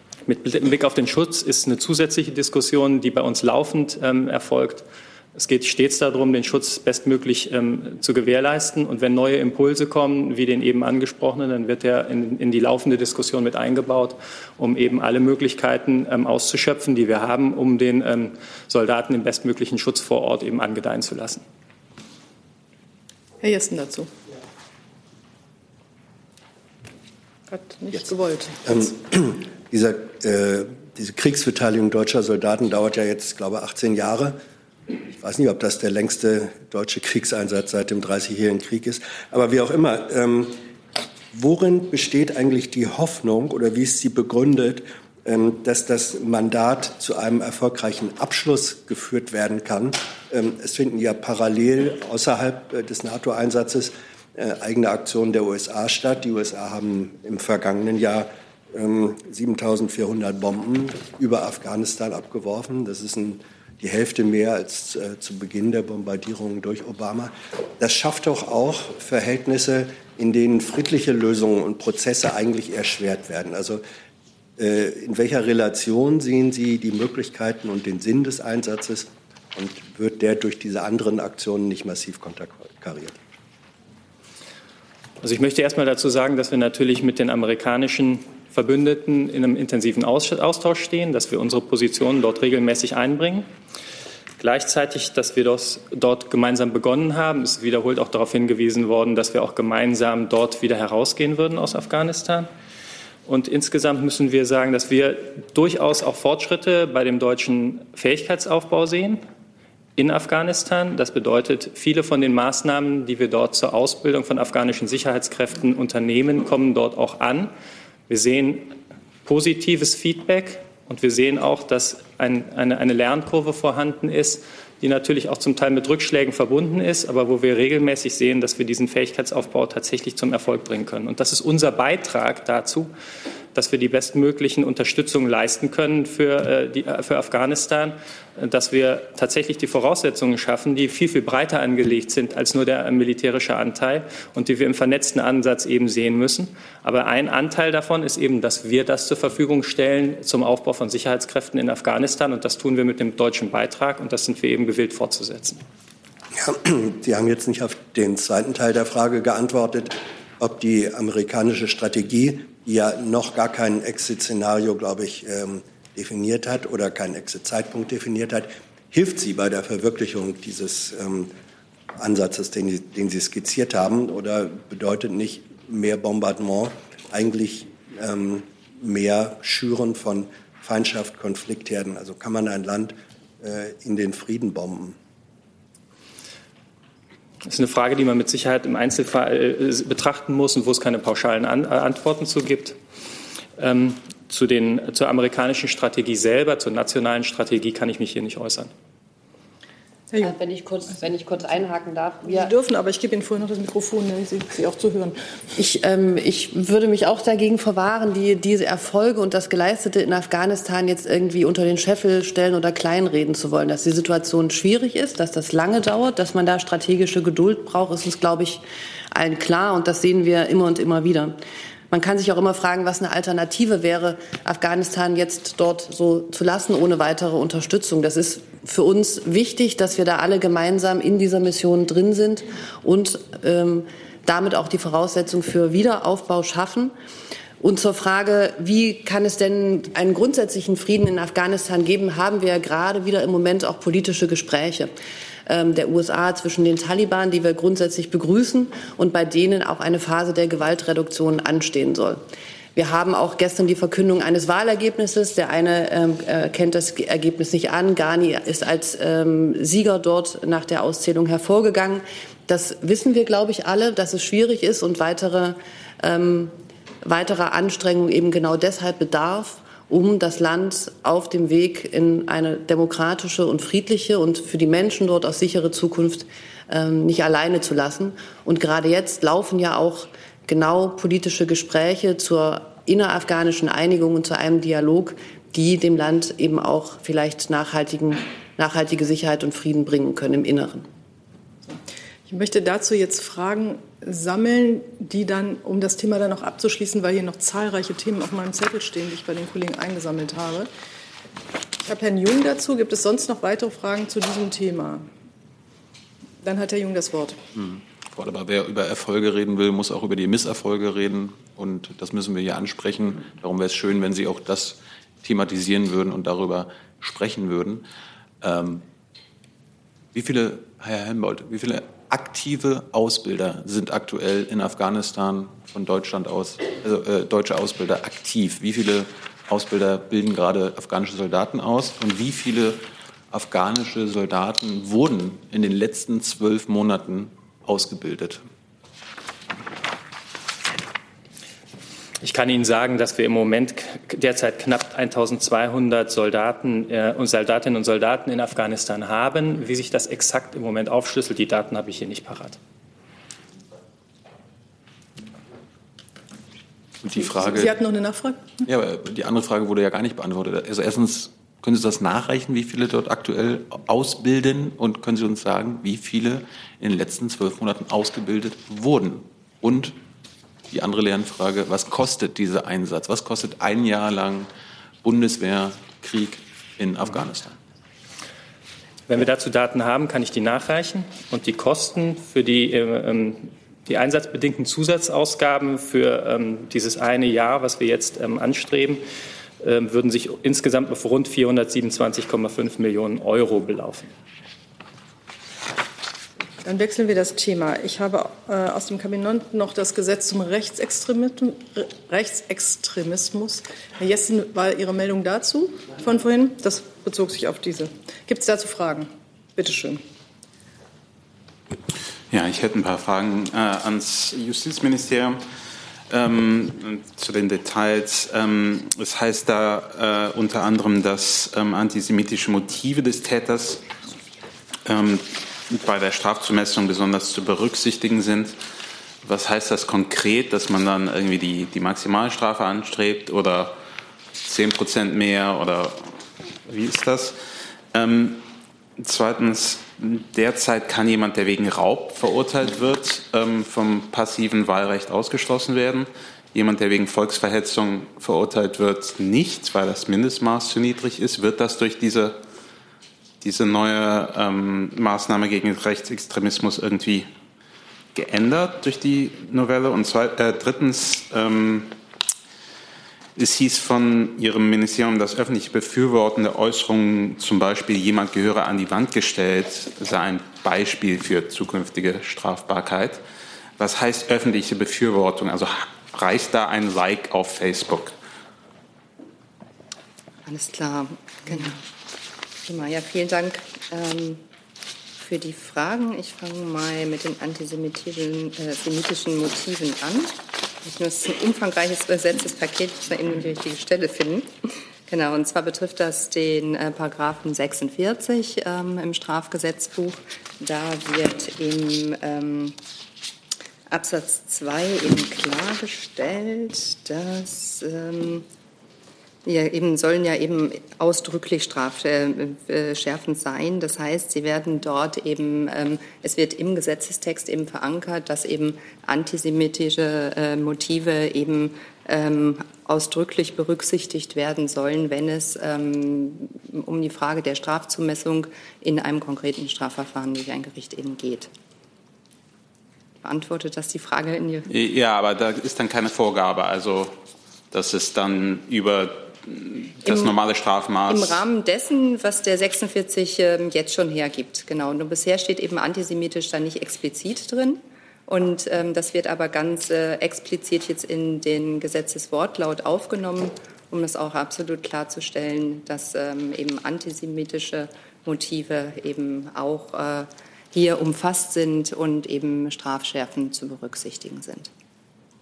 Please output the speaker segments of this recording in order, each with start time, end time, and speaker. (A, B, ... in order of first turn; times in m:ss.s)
0:00.3-0:21.4 A
0:23.4-0:24.1 B
0:27.5-0:28.9 B
0:28.6-0:34.4 C
0:35.1-0:40.5 C
0:41.3-1:13.8 C
1:14.6-1:23.2 C
1:25.2-1:33.5 A
1:34.4-1:42.5 A
1:43.2-1:49.2 A
1:50.0-1:57.5 A
1:58.1-2:12.9 A
2:13.5-2:35.6 A
2:36.3-2:51.3 C
2:52.0-3:05.0 C
3:07.4-3:12.8 A
3:13.6-3:18.7 A
3:20.1-3:20.4 B
3:20.2-3:22.5 D
3:22.2-3:25.2 B
3:25.6-3:41.4 D
3:41.9-3:56.9 D
3:57.6-4:04.9 D
4:05.5-4:12.2 D
4:12.7-4:50.8 D
4:51.7-5:00.7 B
5:01.8-5:05.1 B
5:06.4-5:07.4 B
5:07.6-5:17.8 E
5:18.4-5:18.8 E
5:20.1-5:38.4 E
5:42.2-5:52.6 A
5:57.0-5:57.8 E
5:57.1-5:58.6 B
5:58.6-6:09.9 E
6:10.7-6:14.5 E
6:15.0-6:17.6 E
6:19.1-6:29.0 A
6:29.6-6:34.1 A
6:36.6-6:50.0 B
6:52.3-6:55.4 F
6:56.1-7:03.8 F
7:04.8-7:08.6 F
7:09.2-7:13.8 F
7:14.4-7:17.4 F
7:17.9-7:18.4 F
7:19.0-7:32.4 F
7:33.4-7:37.3 F
7:38.1-7:41.9 F
7:43.4-7:53.2 F
7:53.8-7:58.1 F
8:00.4-8:01.8 G
8:02.6-8:04.4 G
8:05.2-8:22.8 G
8:23.9-8:28.4 G
8:29.4-8:51.5 G
8:53.2-8:54.7 G
8:54.7-8:57.2 F
8:57.7-9:01.4 F
9:00.0-9:00.3 G
9:01.1-9:24.7 G